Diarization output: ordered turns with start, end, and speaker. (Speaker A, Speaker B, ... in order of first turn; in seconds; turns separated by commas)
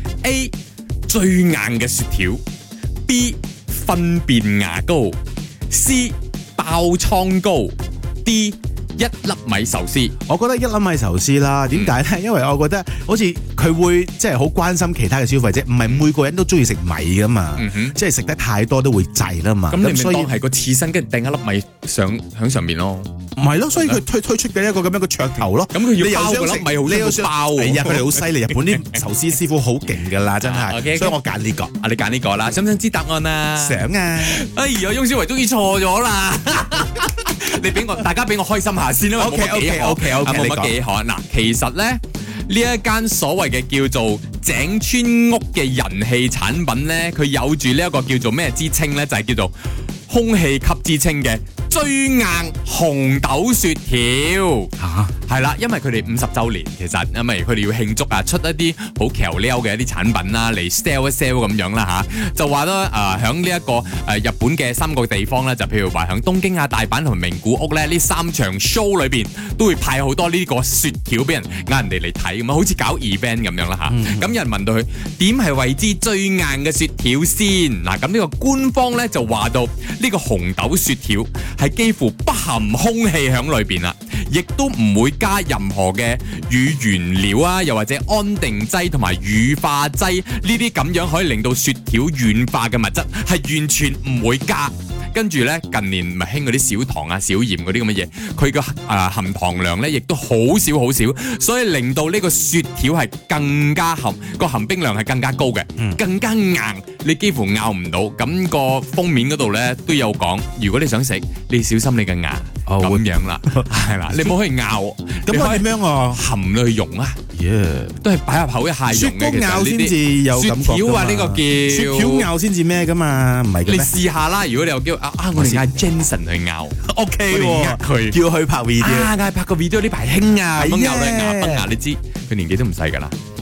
Speaker A: 0.2-0.5, Speaker A: 1.1-2.4, Speaker A: 3.1-5.2, Speaker A: 5.7-10.1, Speaker B: 10.3-20.3, Speaker A: 17.6-18.0, Speaker A: 19.7-23.1, Speaker B: 23.4-31.7, Speaker A: 25.7-28.8, Speaker A: 30.4-31.2, Speaker A: 31.8-49.5, Speaker B: 33.6-34.4, Speaker B: 39.2-40.7, Speaker A: 50.1-54.7, Speaker B: 54.8-55.1, Speaker A: 55.3-117.2, Speaker B: 73.9-74.2, Speaker B: 112.7-114.3, Speaker B: 115.3-116.2, Speaker B: 117.3-118.0, Speaker A: 118.0-122.3, Speaker B: 118.9-123.9, Speaker A: 123.7-128.2, Speaker B: 125.3-125.8, Speaker B: 126.8-129.1, Speaker A: 128.8-133.2, Speaker B: 130.6-131.7